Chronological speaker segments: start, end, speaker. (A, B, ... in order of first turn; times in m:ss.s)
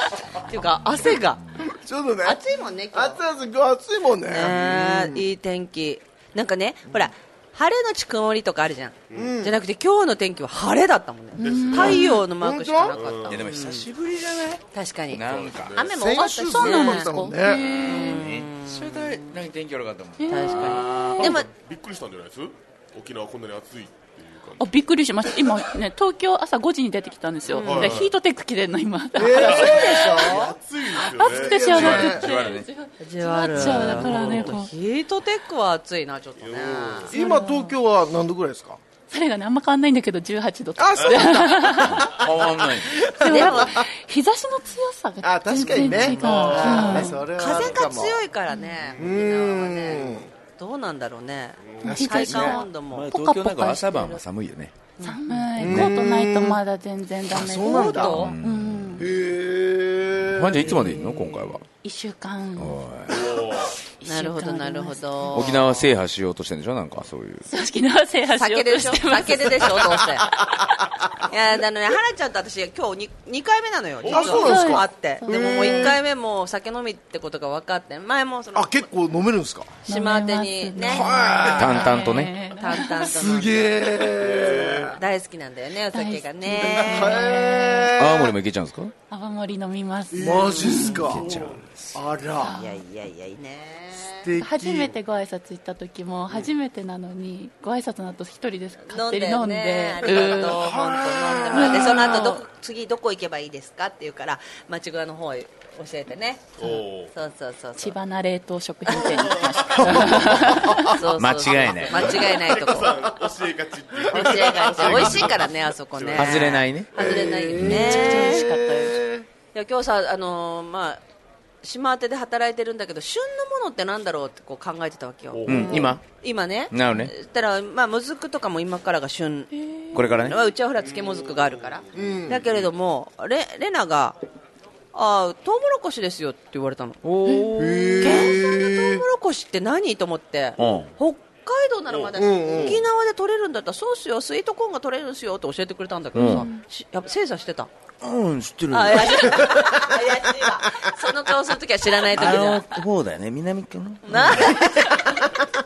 0:00.5-0:01.4 A
0:01.7-0:05.2 B
0:02.2-0:03.2 A
0:04.3-0:13.9 A
0:09.1-0:09.4 C
0:09.2-0:09.6 B
0:11.4-0:12.0 C
0:11.4-0:13.0 B
0:11.8-0:12.2 D
0:12.9-0:13.4 C
0:13.3-0:15.8 E
0:14.7-0:17.1 A
0:15.3-0:15.9 C
0:15.9-0:17.7 B
0:16.4-0:18.2 D
0:17.5-0:21.5 E
0:17.7-0:19.4 A
0:20.2-0:21.3 D
0:20.3-0:21.5 A
0:21.6-0:24.7 C
0:24.6-0:30.2 D
0:27.5-0:28.0 A
0:27.6-0:28.1 C
0:29.2-0:32.2 B
0:29.4-0:31.7 C
0:31.1-0:34.7 D
0:31.6-0:32.7 E
0:33.0-0:37.1 A
0:33.5-0:34.0 E
0:34.0-0:34.5 C
0:36.4-0:37.1 C
0:37.1-0:37.7 D
0:37.1-0:38.8 B
0:39.1-0:42.1 D
0:40.8-0:42.3 B
0:41.0-0:41.8 C
0:42.0-0:43.1 E
0:43.0-0:43.9 B
0:43.2-0:47.2 D
0:43.2-0:43.8 A
0:45.2-0:48.2 B
0:45.8-0:47.9 C
0:46.7-0:53.1 A
0:49.0-0:50.3 B
0:51.8-0:52.6 B
0:51.9-0:54.1 D
0:52.4-0:54.8 E
0:53.9-0:54.2 A
0:55.0-0:55.8 A
0:55.0-0:59.1 D
0:55.6-0:56.6 B
0:57.3-0:58.3 B
0:57.4-0:58.3 A
0:58.2-0:59.0 E
0:59.0-1:01.0 B
1:00.3-1:01.6 E
1:01.8-1:02.8 D
1:02.6-1:03.3 E
1:03.1-1:03.8 C
1:04.0-1:05.0 D
1:04.0-1:05.9 A
1:05.3-1:07.4 E
1:07.5-1:11.0 D
1:08.4-1:10.3 A
1:11.3-1:18.9 A
1:14.0-1:14.4 C
1:14.1-1:16.0 B
1:14.2-1:16.0 D
1:18.5-1:19.8 B
1:19.8-1:21.6 A
1:19.9-1:23.1 D
1:20.9-1:22.1 B
1:21.5-1:22.3 E
1:22.5-1:24.0 A
1:23.0-1:25.0 B
1:24.4-1:24.9 C
1:24.9-1:27.4 A
1:25.9-1:27.9 D
1:26.7-1:28.4 B
1:28.0-1:28.9 E
1:29.1-1:31.1 D
1:30.1-1:32.6 B
1:30.8-1:32.0 E
1:31.2-1:31.6 C
1:32.4-1:32.8 D
1:32.6-1:34.3 A
1:34.1-1:34.9 B
1:34.4-1:40.6 D
1:38.8-1:48.0 A
1:40.4-1:42.3 B
1:41.5-1:42.4 D
1:46.6-1:47.1 C
1:47.8-1:51.0 D
1:49.1-1:50.2 C
1:49.8-1:52.3 E
1:50.2-1:53.1 A
1:51.7-1:57.2 C
1:54.0-1:58.5 A
1:54.3-1:54.7 D
1:54.8-1:55.1 E
1:56.1-1:57.8 E
1:57.0-1:59.3 B
1:57.6-1:59.0 D
1:59.5-2:01.0 A
2:01.6-2:14.2 A
2:05.3-2:05.9 C
2:05.5-2:06.0 E
2:06.7-2:07.1 E
2:09.5-2:10.0 D
2:09.9-2:10.4 E
2:10.8-2:12.2 C
2:12.0-2:12.4 B
2:14.9-2:17.0 A
2:17.0-2:18.2 E
2:17.6-2:19.0 B
2:18.0-2:27.7 A
2:20.6-2:20.9 E
2:22.2-2:22.8 B
2:26.1-2:26.5 E
2:26.2-2:26.6 D
2:28.0-2:29.7 E
2:28.7-2:32.8 A
2:32.1-2:34.7 E
2:34.0-2:35.3 A